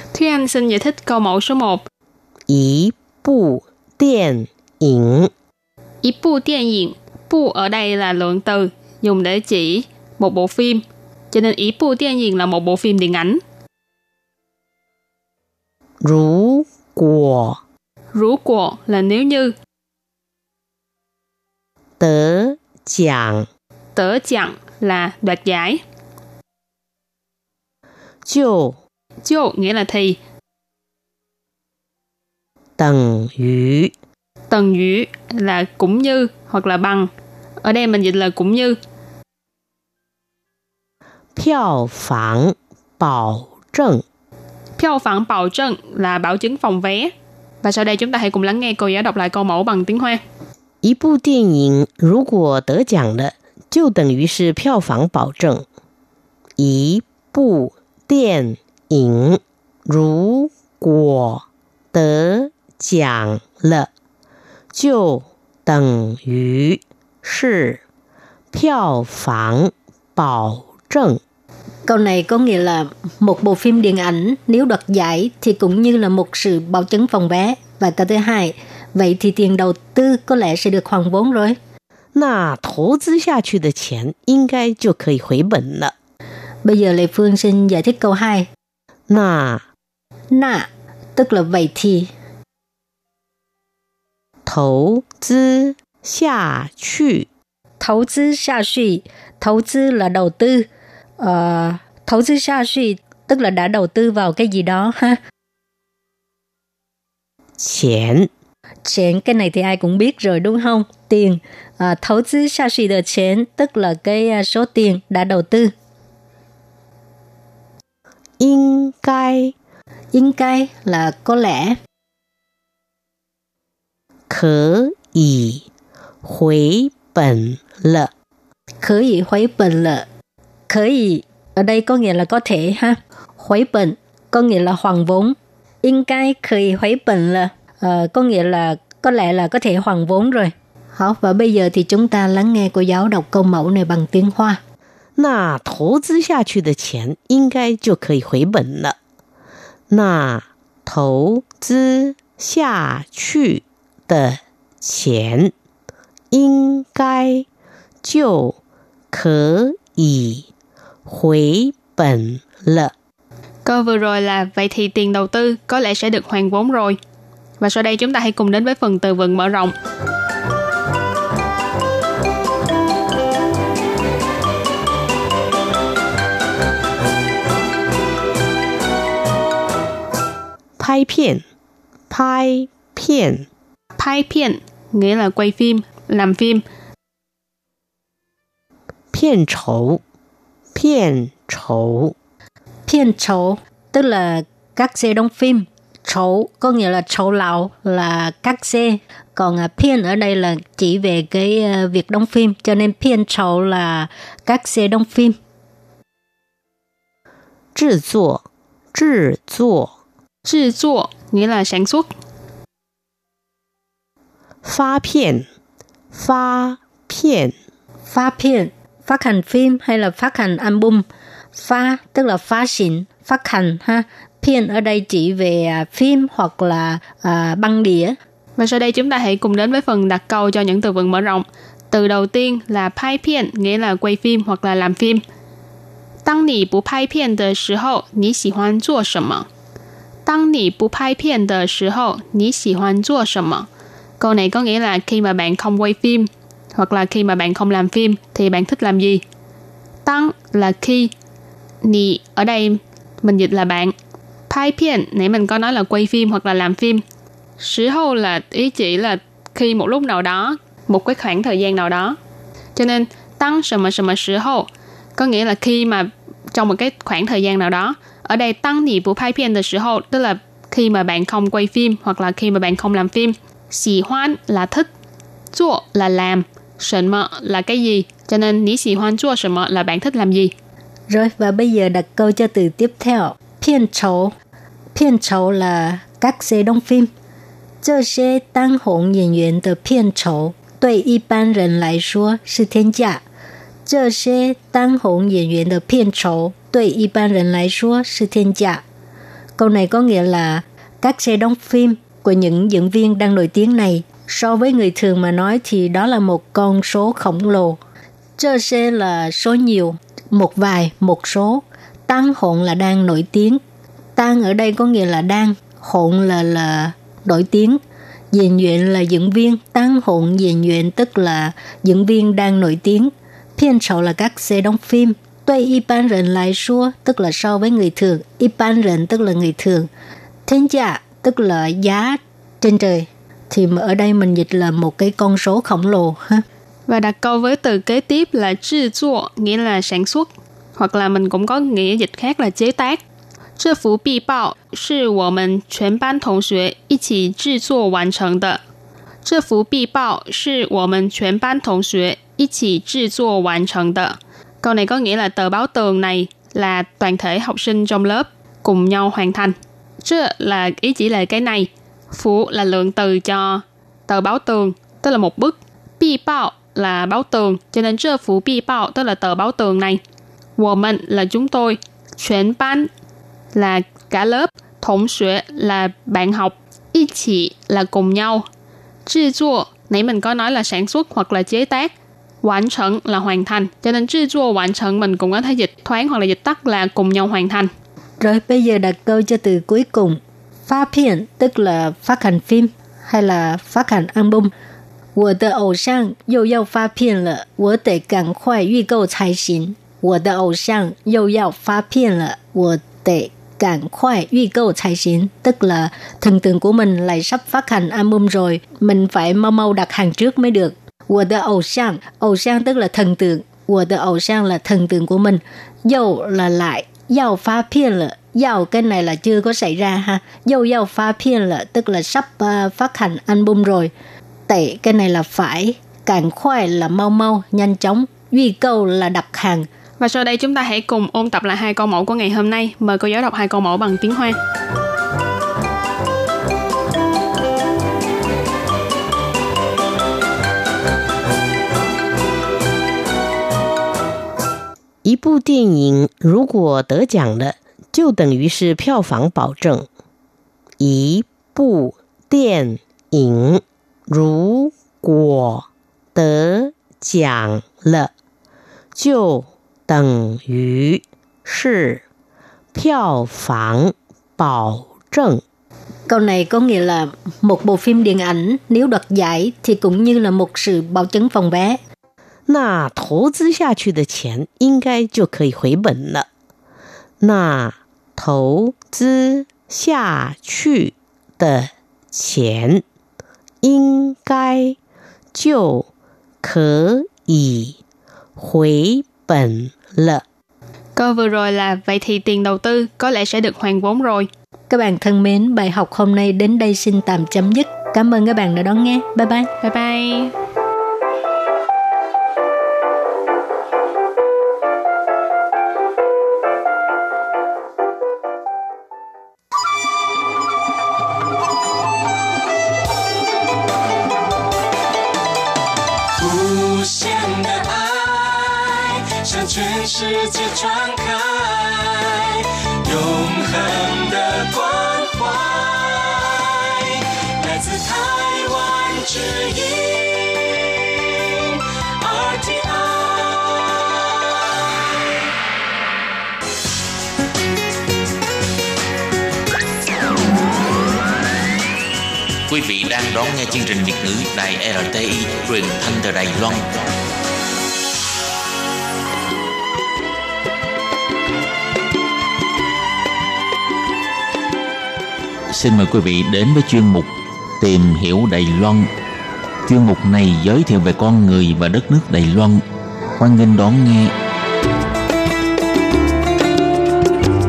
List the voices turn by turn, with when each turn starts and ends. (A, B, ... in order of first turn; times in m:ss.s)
0:00.1-0:01.8 A
0:02.5-0:05.3 B
0:06.0-0:13.4 A
0:16.0-0:17.6 B
0:18.1-0:19.6 A
0:22.0-0:23.5 B
0:24.0-0:25.8 A
0:28.3-0:28.8 B
0:29.2-0:30.2 A
0:32.8-0:33.9 B
0:34.5-0:37.1 A
0:37.6-0:38.8 A
0:41.4-0:44.0 B
0:44.8-0:50.2 A
0:50.8-0:55.6 B
0:56.6-1:03.9 B
1:04.7-1:07.8 B
1:08.5-1:11.2 B
1:11.9-1:21.6 C
1:22.2-1:25.9 B
1:26.6-1:28.5 C
1:29.1-1:29.6 B
1:30.3-1:32.1 C
1:34.5-1:37.3 B
1:37.8-1:40.7 C
1:41.2-1:45.2 C
1:47.6-1:48.3 B
1:48.9-1:55.7 C
1:58.4-1:59.5 B
2:00.1-2:01.8 C
2:04.3-2:05.6 B
2:06.2-2:08.1 B
2:08.8-2:10.1 C
2:10.7-2:24.6 C
2:25.2-2:29.0 B
2:29.9-2:35.5 B
2:36.3-2:37.4 B
2:38.0-2:38.6 B
2:39.1-2:40.4 B
2:41.1-2:42.9 B
2:43.6-2:47.0 A
2:47.6-2:49.7 A
3:00.8-3:01.4 B
3:02.1-3:03.5 B
3:04.0-3:06.6 A
3:09.1-3:10.0 B
3:10.8-3:12.1 B
3:12.9-3:25.4 C
3:27.8-3:28.4 B
3:28.9-3:29.9 B
3:30.5-3:32.1 A
3:34.6-3:35.5 B
3:36.1-3:37.5 B
3:38.1-3:41.0 C
3:41.6-3:48.2 C
3:48.6-3:55.2 A
3:56.2-3:59.5 A
4:00.3-4:03.7 A
4:04.2-4:09.2 A
4:10.0-4:11.1 A
4:11.8-4:13.9 A
4:14.5-4:17.0 A
4:17.6-4:22.2 A
4:22.8-4:34.9 A
4:35.5-4:40.5 A
4:41.1-4:44.3 C
4:45.0-4:47.1 C
4:47.8-4:53.2 C
4:53.9-4:58.8 C
4:59.6-5:07.8 C
5:08.4-5:13.6 C
5:14.2-5:17.8 C
5:18.3-5:29.9 C
5:30.5-5:36.5 C
5:36.9-5:43.0 A
5:43.6-5:48.6 A
5:49.2-6:10.0 A
6:10.6-6:12.9 A
6:13.6-6:18.4 A
6:19.1-6:21.9 A
6:22.4-6:27.7 A
6:28.2-6:34.5 C
6:35.2-7:03.9 C
7:04.5-7:09.7 C
7:10.0-7:14.4 A
7:25.0-7:29.9 B
7:30.8-7:38.1 B
7:39.0-7:42.0 B
7:42.7-7:45.4 B
7:46.1-7:51.8 C
7:52.5-7:56.3 B
7:57.2-8:02.8 B
8:03.6-8:04.8 B
8:05.4-8:05.9 B
8:06.4-8:07.8 B
8:08.4-8:10.2 B
8:11.0-8:14.3 A
8:14.7-8:19.5 C
8:19.6-8:20.3 A
8:36.2-8:51.5 D
8:52.0-8:54.0 D
9:02.5-9:06.7 E
9:15.5-9:18.9 E
9:19.7-9:22.6 E
9:23.2-9:24.1 E